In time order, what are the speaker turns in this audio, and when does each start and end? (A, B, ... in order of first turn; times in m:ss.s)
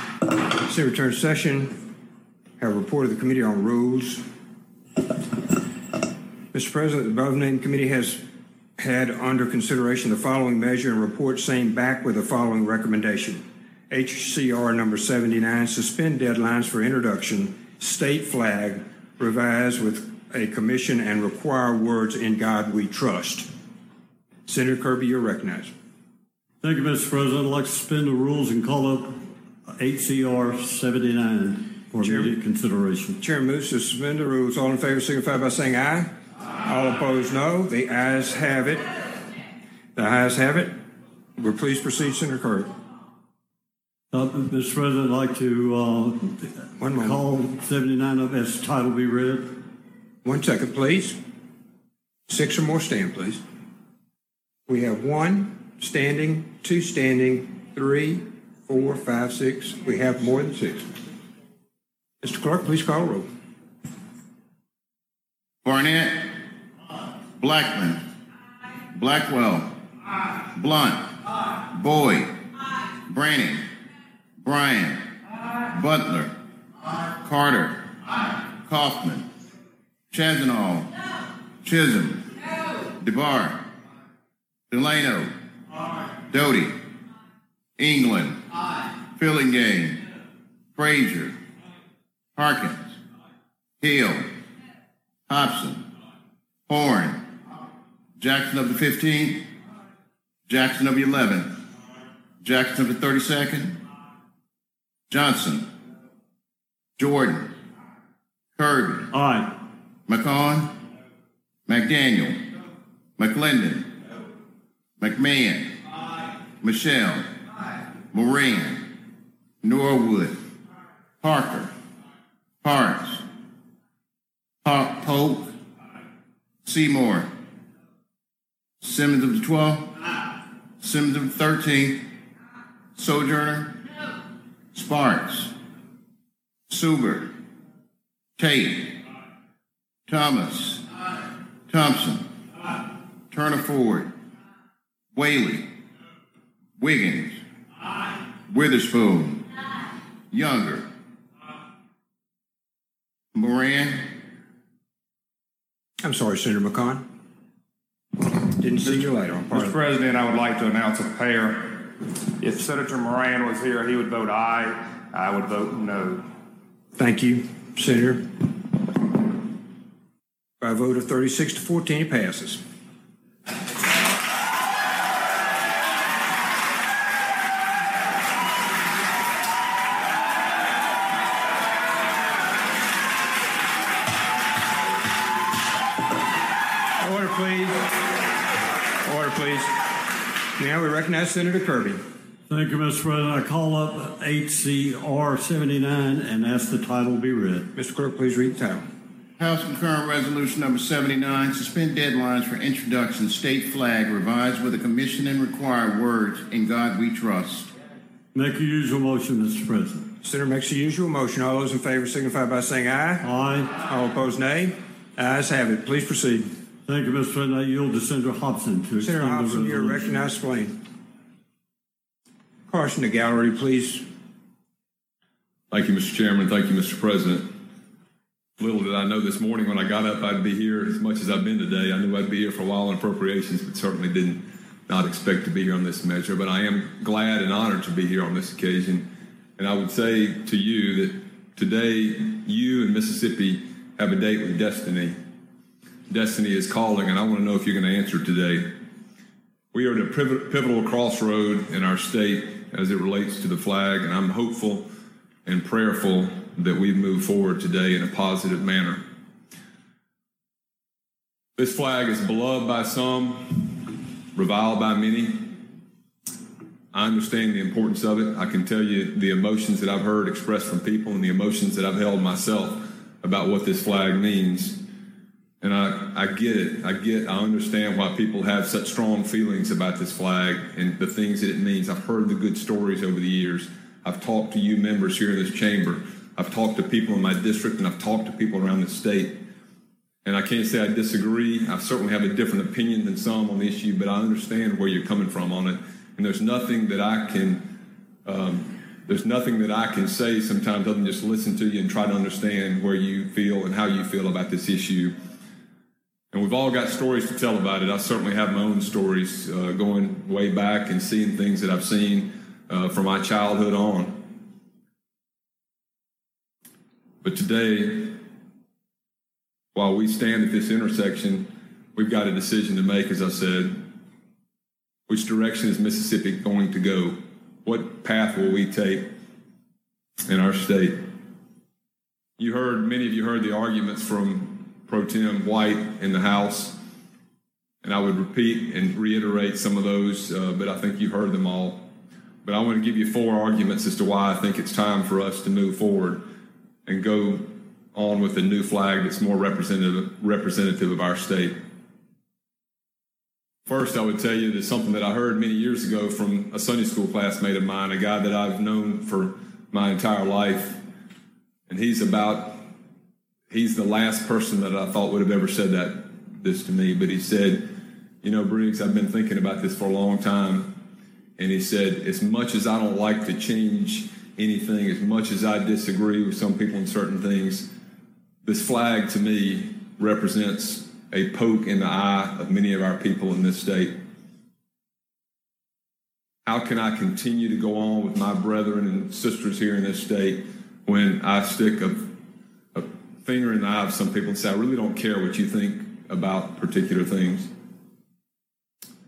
0:00.5-0:01.8 A
0:02.6-0:04.2 A
0:06.5-0:08.2 A
0:08.8-0:23.5 A
0:24.5-0:25.7 A
0:26.6-0:33.2 B
0:32.0-0:32.4 A
0:33.2-0:38.9 A
0:40.0-0:40.7 A
0:41.4-0:42.7 A
0:44.1-0:49.6 B
0:46.8-0:47.3 A
0:50.2-0:51.2 A
0:52.3-0:53.4 A
0:54.7-1:00.9 A
1:02.2-1:03.3 A
1:05.6-1:06.4 C
1:07.4-1:08.0 C
1:08.9-1:09.8 C
1:10.5-1:12.3 C
1:13.0-1:13.6 C
1:14.4-1:15.0 C
1:15.7-1:16.3 C
1:17.2-1:17.9 C
1:18.6-1:19.3 C
1:20.1-1:20.9 C
1:21.6-1:22.3 C
1:22.9-1:23.6 C
1:24.7-1:25.3 C
1:26.3-1:26.8 C
1:27.8-1:28.4 C
1:29.2-1:30.0 C
1:30.8-1:31.4 C
1:32.4-1:32.9 C
1:33.8-1:34.3 C
1:35.3-1:35.8 C
1:36.7-1:37.2 C
1:38.2-1:39.5 C
1:40.5-1:41.5 C
1:42.4-1:43.8 C
1:45.1-1:45.7 C
1:47.0-1:47.5 C
1:48.6-1:49.1 C
1:49.1-1:49.5 B
1:50.1-1:50.7 C
1:51.7-1:52.4 C
1:53.2-1:53.9 C
1:55.0-1:55.8 C
1:56.6-1:57.3 C
1:58.1-1:58.9 C
1:59.6-2:00.4 C
2:01.2-2:01.7 C
2:02.6-2:03.2 C
2:04.6-2:05.5 C
2:06.6-2:07.3 C
2:08.8-2:09.9 C
2:10.8-2:12.0 C
2:13.0-2:13.8 C
2:14.7-2:15.5 C
2:16.7-2:17.3 C
2:18.4-2:19.0 C
2:20.1-2:20.8 C
2:21.7-2:22.2 C
2:23.3-2:24.1 C
2:25.1-2:25.7 C
2:26.8-2:27.4 C
2:28.5-2:29.5 C
2:30.3-2:30.9 C
2:33.3-2:34.0 C
2:36.0-2:37.0 A
2:38.4-2:39.8 A
2:38.8-2:46.3 D
2:46.9-2:48.3 A
2:50.6-2:52.6 A
3:07.0-3:07.9 A
3:09.0-3:09.8 A
3:10.6-3:12.0 A
3:12.5-3:17.7 B
3:17.8-3:18.9 A
3:19.4-3:27.7 C
3:28.3-3:30.0 B
3:30.2-3:36.5 A
3:33.2-3:33.7 B
3:36.9-3:40.0 B
3:39.0-3:40.8 A
3:42.7-3:44.0 A
3:45.7-3:47.5 E
3:48.6-4:05.2 E
4:06.1-4:08.8 E
4:09.7-4:14.9 E
4:15.4-4:19.0 E
4:21.6-4:25.5 E
4:26.9-4:34.8 E
4:35.6-4:49.4 E
4:50.2-4:57.7 E
4:58.2-5:05.2 E
5:06.3-5:14.4 E
5:17.2-5:18.2 E
5:19.8-5:23.8 E
5:25.1-5:29.1 E
5:30.3-5:31.0 E
5:32.4-5:36.8 E
5:37.8-5:41.9 E
5:42.4-5:46.3 E
5:46.9-5:51.6 E
5:53.7-6:00.8 E
6:01.7-6:02.6 E
6:03.5-6:10.8 E
6:11.4-6:17.7 E
6:18.4-6:24.0 E
6:26.5-6:32.1 E
6:32.7-6:37.5 E